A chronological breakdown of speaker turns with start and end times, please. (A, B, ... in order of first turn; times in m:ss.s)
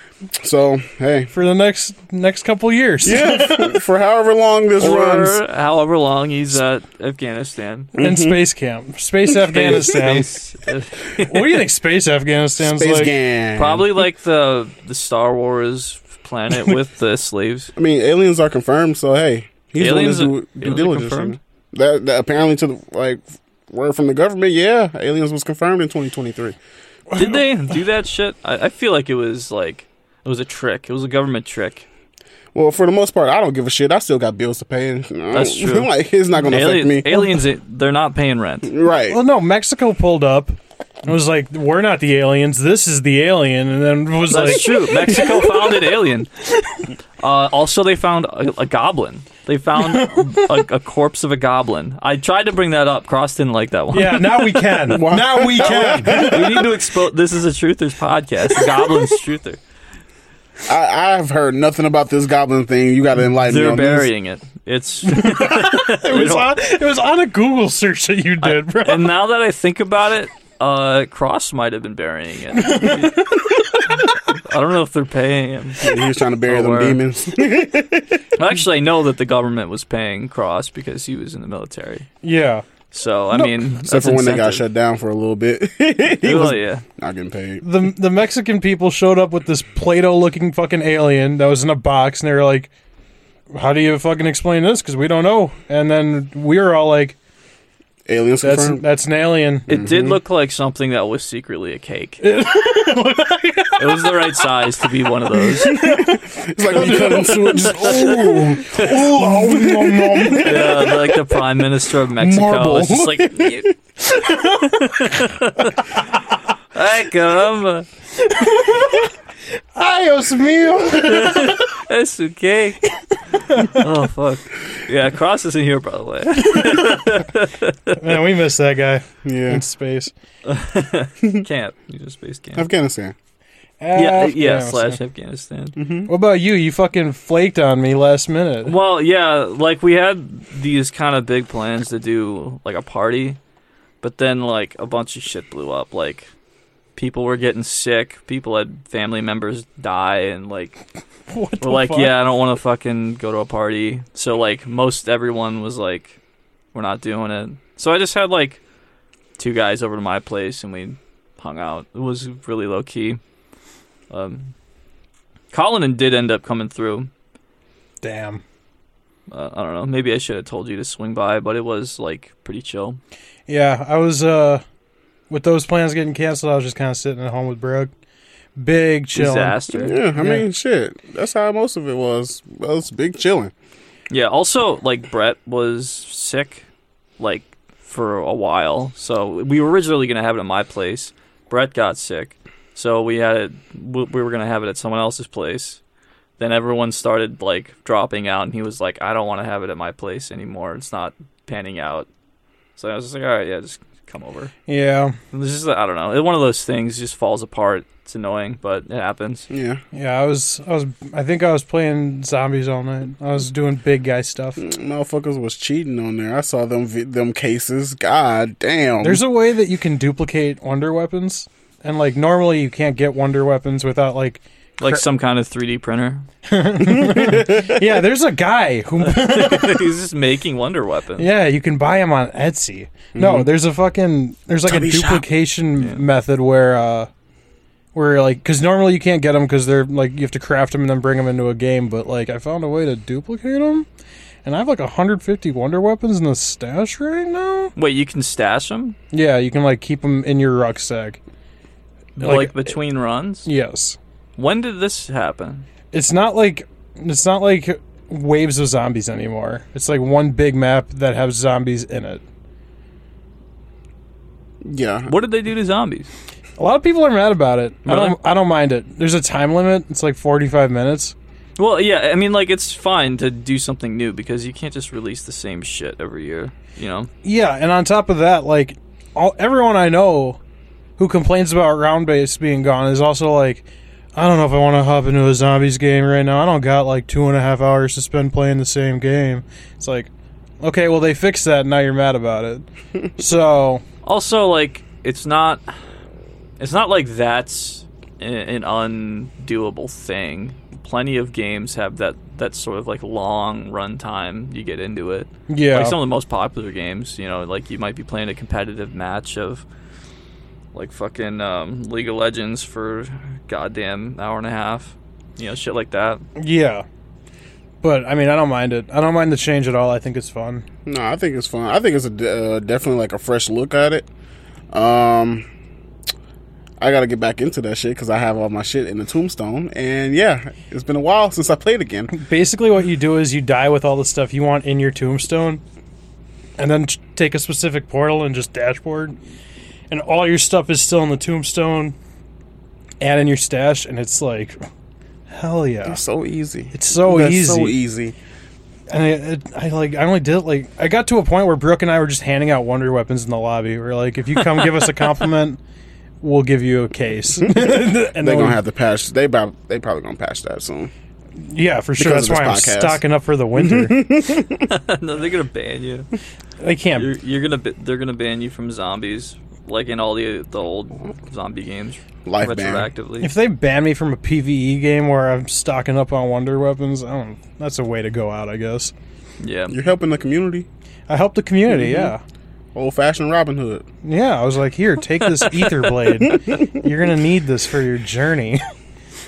0:00.4-0:01.3 A
0:01.3-0:03.8 B
0:03.0-0:05.4 A
0:04.8-0:07.9 C
0:07.9-0:10.3 B
0:08.0-0:08.4 A
0:09.4-0:11.6 C
0:11.2-0:13.1 B
0:12.6-0:13.9 A
0:13.6-0:17.7 C
0:17.8-0:26.6 A
0:19.8-0:21.4 C
0:27.1-0:27.4 B
0:27.2-0:31.8 C
0:32.6-0:37.1 A
0:35.3-0:38.7 C
0:38.6-0:39.2 A
0:39.1-0:46.0 B
0:44.3-0:46.3 C
0:47.2-0:54.8 C
0:49.8-0:50.1 B
0:53.9-0:56.6 B
0:54.9-0:56.7 A
0:55.7-0:59.6 C
1:00.7-1:04.1 A
1:03.4-1:06.5 C
1:05.0-1:09.1 B
1:08.4-1:13.3 C
1:12.6-1:14.1 B
1:14.4-1:17.0 C
1:15.8-1:18.2 A
1:18.4-1:22.1 C
1:22.2-1:22.6 B
1:22.9-1:24.6 C
1:23.3-1:27.7 A
1:26.2-1:26.8 C
1:27.6-1:32.7 B
1:33.5-1:37.2 B
1:38.1-1:38.8 A
1:38.4-1:39.7 B
1:39.7-1:40.2 A
1:39.7-1:42.2 C
1:42.2-1:44.5 B
1:43.8-1:45.8 C
1:45.3-1:51.2 B
1:45.7-1:51.1 A
1:50.4-1:53.7 C
1:52.2-1:53.6 A
1:54.1-1:55.0 B
1:54.6-1:55.8 C
1:56.7-1:57.9 C
1:58.2-1:59.1 B
1:59.8-2:01.8 B
2:00.9-2:08.0 C
2:06.6-2:07.1 B
2:07.9-2:10.1 B
2:09.2-2:09.6 A
2:10.4-2:12.7 C
2:12.6-2:13.2 A
2:13.8-2:15.0 B
2:13.9-2:15.8 C
2:15.8-2:16.1 A
2:16.1-2:18.8 B
2:18.6-2:23.4 C
2:24.0-2:26.3 C
2:27.0-2:30.8 C
2:31.3-2:32.2 B
2:31.6-2:36.2 C
2:36.7-2:38.6 C
2:39.4-2:43.2 C
2:44.1-2:44.5 C
2:45.5-2:47.1 C
2:48.0-2:48.4 B
2:49.3-2:53.0 C
2:53.5-2:54.6 B
2:55.3-2:57.9 B
2:58.6-3:00.4 B
2:59.2-2:59.9 C
2:59.8-3:03.5 A
3:04.1-3:06.7 C
3:07.2-3:15.8 C
3:16.4-3:22.1 C
3:22.8-3:24.5 C
3:24.7-3:25.2 B
3:25.3-3:29.5 C
3:29.5-3:29.8 A
3:29.9-3:34.6 B
3:34.6-3:39.2 A
3:39.0-3:45.0 B
3:44.8-3:46.2 C
3:46.4-3:49.9 B
3:46.9-3:47.8 A
3:49.0-3:51.3 C
3:51.2-3:57.1 B
3:53.1-3:53.5 A
3:54.6-3:55.2 A
3:57.9-4:03.9 B
4:04.4-4:07.7 B
4:07.8-4:09.0 C
4:09.1-4:11.2 B
4:12.2-4:13.5 C
4:12.2-4:12.8 B
4:13.4-4:14.0 B
4:14.4-4:15.7 C
4:15.9-4:22.2 B
4:24.6-4:25.1 A
4:25.1-4:26.1 C
4:26.6-4:31.2 B
4:27.8-4:28.2 C
4:31.6-4:37.1 C
4:37.2-4:40.4 B
4:41.0-4:50.1 B
4:50.6-4:52.6 B
4:53.2-4:53.8 B
4:54.0-4:55.6 C
4:56.6-5:09.6 C
5:05.5-5:06.0 B
5:10.7-5:16.2 C
5:16.4-5:16.8 B
5:17.8-5:20.6 B
5:20.8-5:24.1 A
5:24.7-5:25.4 A
5:26.8-5:32.1 A
5:32.1-5:35.6 B
5:36.6-5:39.2 B
5:39.9-5:41.9 B
5:43.0-5:44.6 B
5:45.3-5:46.0 B
5:45.8-5:48.2 A
5:46.7-5:47.8 B
5:48.9-5:55.6 B
5:56.2-5:58.6 B
5:57.4-6:00.9 A
6:01.4-6:04.0 B
6:02.0-6:03.0 A
6:03.6-6:04.6 A
6:04.6-6:06.1 C
6:06.6-6:07.1 B
6:07.0-6:13.3 C
6:12.3-6:12.9 A
6:13.2-6:18.9 B
6:19.4-6:19.8 C
6:19.7-6:20.7 A
6:21.1-6:22.2 B
6:21.7-6:22.1 A
6:22.8-6:23.8 A
6:24.0-6:28.6 B
6:25.2-6:25.9 C